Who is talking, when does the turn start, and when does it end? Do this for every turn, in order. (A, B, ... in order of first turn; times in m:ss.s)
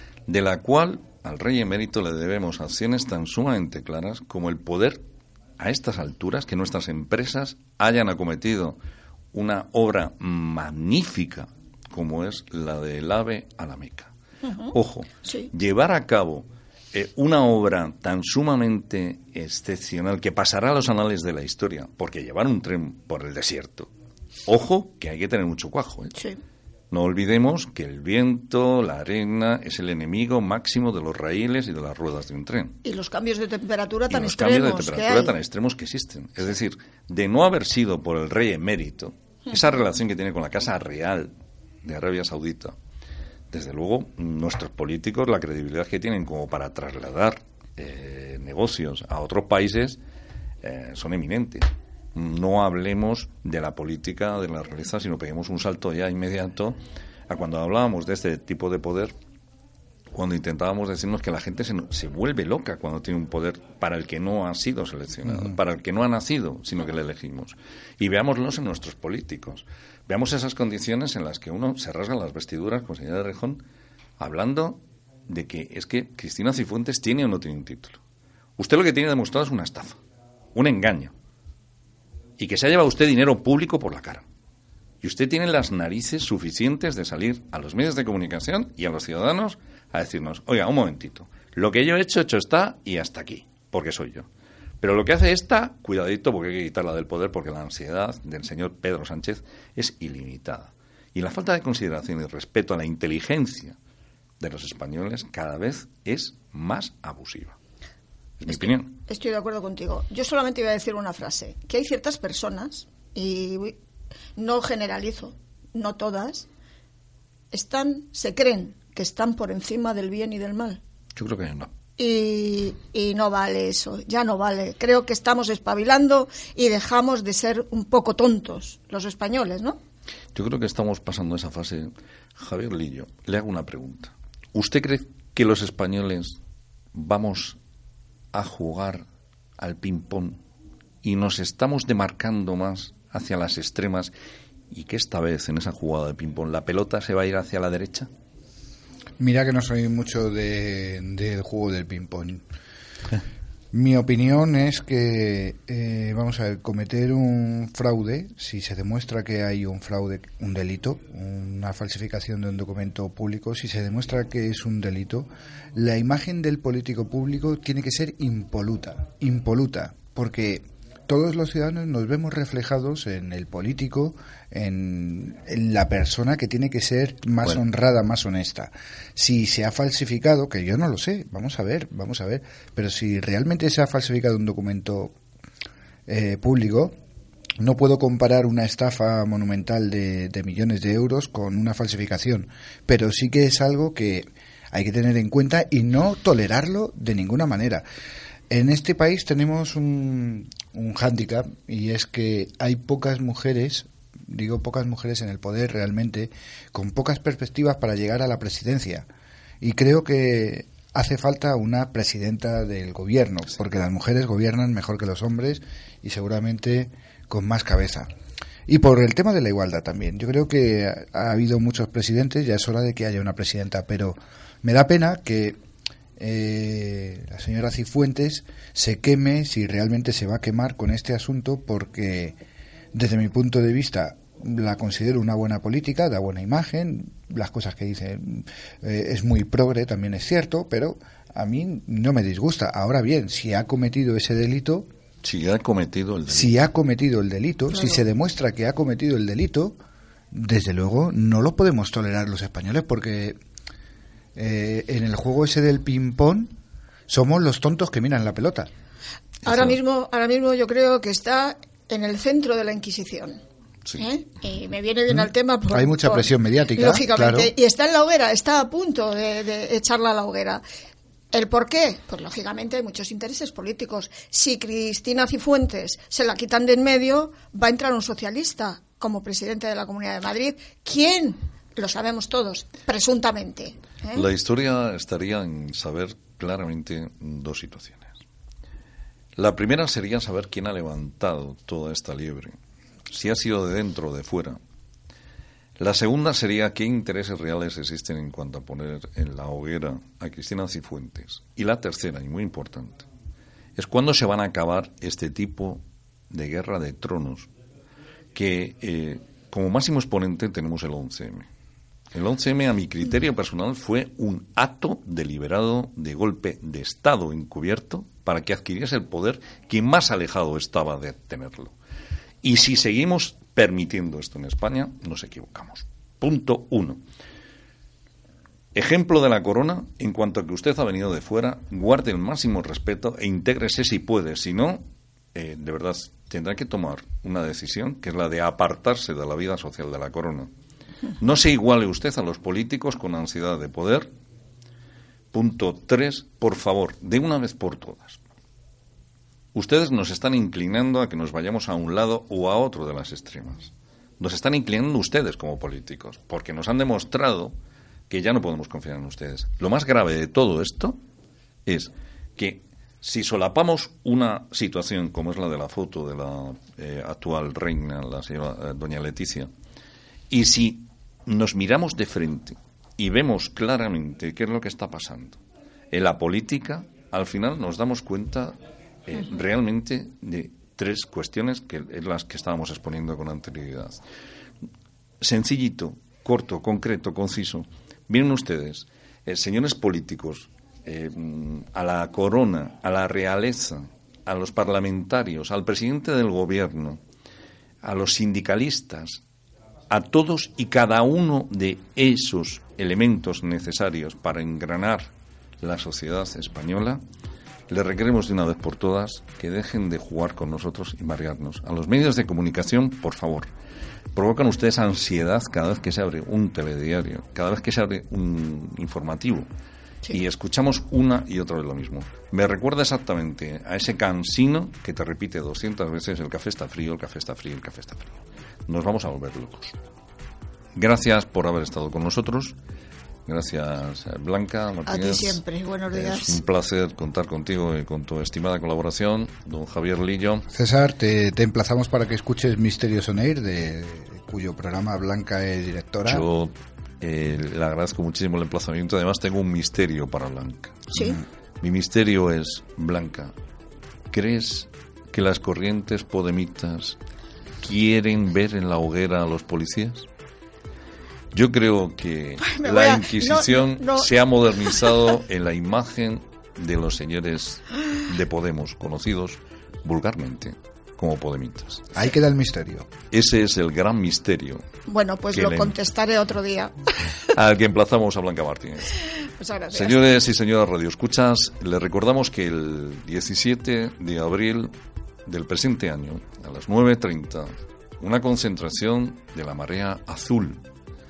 0:00.3-0:05.0 A
0:05.6-0:08.8 A
0:09.3-0:14.1 A
0:14.4-0:15.5 B
0:14.7-0:23.9 A
0:24.5-0:26.1 A
0:26.9-0:32.8 A
0:32.8-0:35.4 B
0:34.1-0:42.8 A
0:43.5-0:50.0 A
0:50.6-0:59.1 A
1:00.1-1:13.6 A
1:05.3-1:05.6 C
1:14.2-1:18.0 A
1:18.6-1:20.0 A
1:20.5-1:21.1 A
1:22.4-1:24.2 A
1:25.0-1:34.3 A
1:34.8-1:43.8 A
1:44.4-1:47.6 A
1:48.4-1:49.0 A
1:48.5-1:53.8 B
1:54.4-1:56.5 B
1:57.5-2:00.8 B
2:01.2-2:01.7 A
2:02.0-2:09.8 B
2:10.4-2:16.4 A
2:16.9-2:17.6 A
2:18.3-2:19.1 A
2:19.6-2:20.4 A
2:21.0-2:24.1 A
2:24.7-2:28.1 A
2:29.2-2:32.4 C
2:33.7-3:05.2 C
3:06.1-3:07.0 C
3:07.6-3:17.9 C
3:18.5-3:29.1 C
3:29.6-3:38.1 C
3:38.7-3:45.6 C
3:46.2-3:52.4 C
3:52.9-4:04.9 C
4:05.2-4:06.6 A
4:06.3-4:09.8 C
4:07.7-4:08.0 B
4:10.3-4:13.4 C
4:14.4-4:16.5 C
4:17.1-4:18.7 C
4:19.4-4:19.8 A
4:19.5-4:23.4 B
4:24.0-4:30.6 B
4:25.1-4:27.5 C
4:31.3-4:44.3 B
4:44.1-4:48.2 A
4:49.4-4:52.6 A
4:53.1-4:54.6 A
4:55.8-5:03.1 A
5:03.8-5:07.5 A
5:08.3-5:11.5 A
5:12.1-5:21.7 A
5:22.4-5:27.0 A
5:28.8-5:40.5 A
5:41.2-5:44.1 A
5:45.3-5:48.2 A
5:49.5-5:57.6 A
5:58.1-6:01.0 A
6:01.7-6:09.5 A
6:10.3-6:15.4 A
6:15.9-6:24.0 A
6:25.2-6:37.0 A
6:37.8-6:39.2 A
6:39.9-6:47.0 A
6:47.7-6:53.5 A
6:54.1-6:59.5 A
7:00.1-7:09.8 A
7:10.8-7:12.6 A
7:13.3-7:20.5 A
7:14.9-7:16.4 B
7:20.5-7:26.3 C
7:26.1-7:33.3 A
7:30.9-7:31.2 B
7:34.1-7:37.0 A
7:37.6-7:40.1 A
7:41.3-7:51.9 A
7:42.4-7:44.1 B
7:51.9-7:52.9 C
7:53.1-7:54.6 A
7:54.9-7:56.9 B
7:55.3-7:55.8 A
7:57.3-7:59.0 A
7:59.2-8:00.1 B
7:59.7-8:04.7 A
8:05.3-8:10.6 A